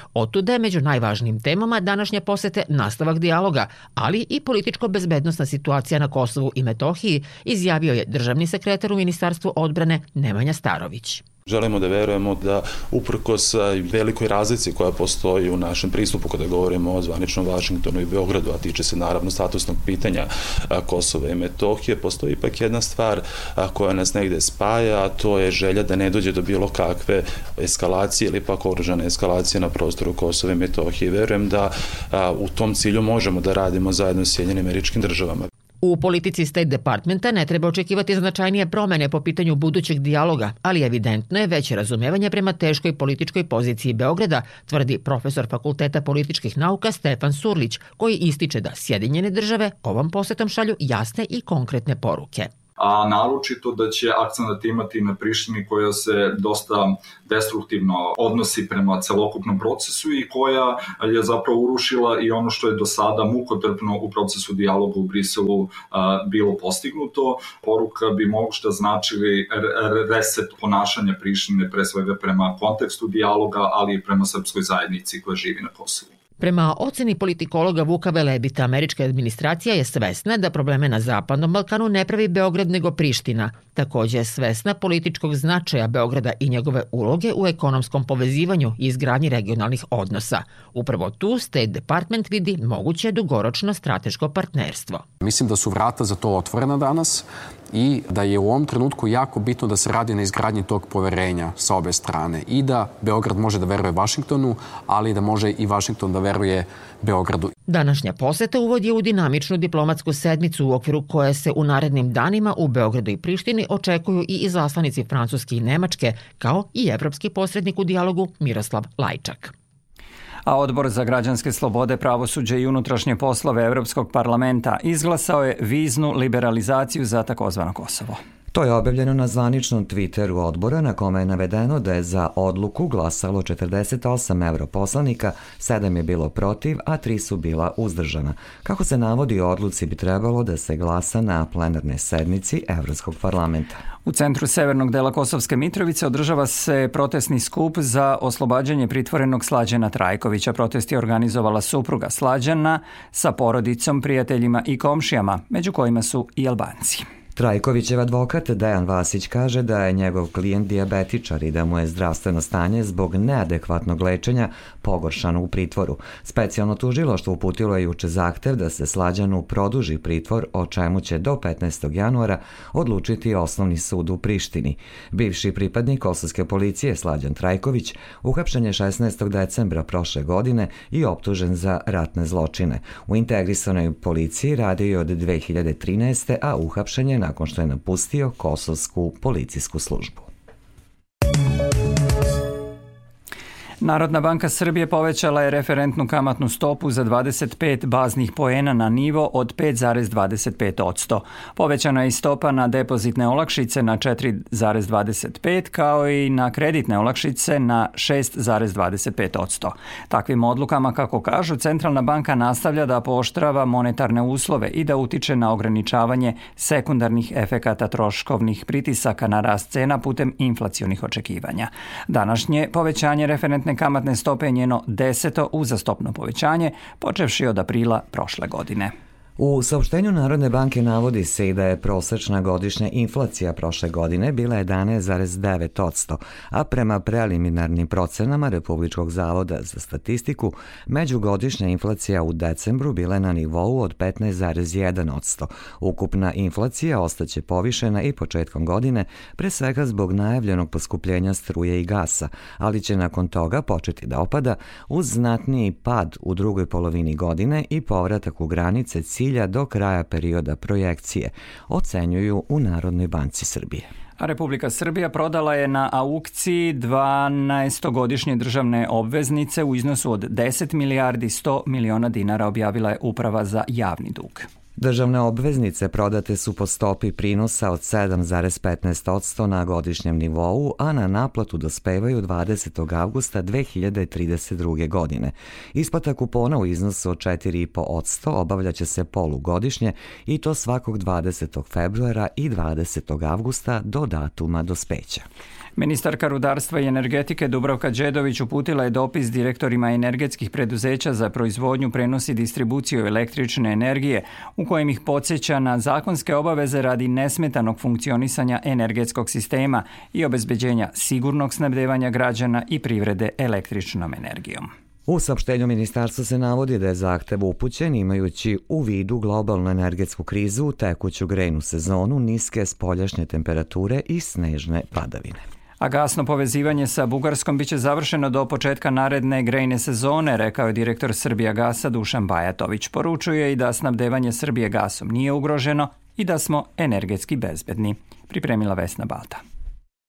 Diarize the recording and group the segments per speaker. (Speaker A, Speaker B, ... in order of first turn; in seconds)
Speaker A: 0.1-11.2, 35.8-52.5, 76.4-95.1, 107.7-119.5
Speaker B: 11.5-35.5
Speaker C: 52.8-76.1
Speaker D: 95.2-107.5
Speaker E: 120.5-128.2, 144.1-157.0, 193.8-228.9, 264.2-274.5, 295.8-314.7, 325.8-339.4
Speaker F: 128.5-143.8, 157.4-190.3, 229.4-263.9, 274.8-295.2, 315.1-325.4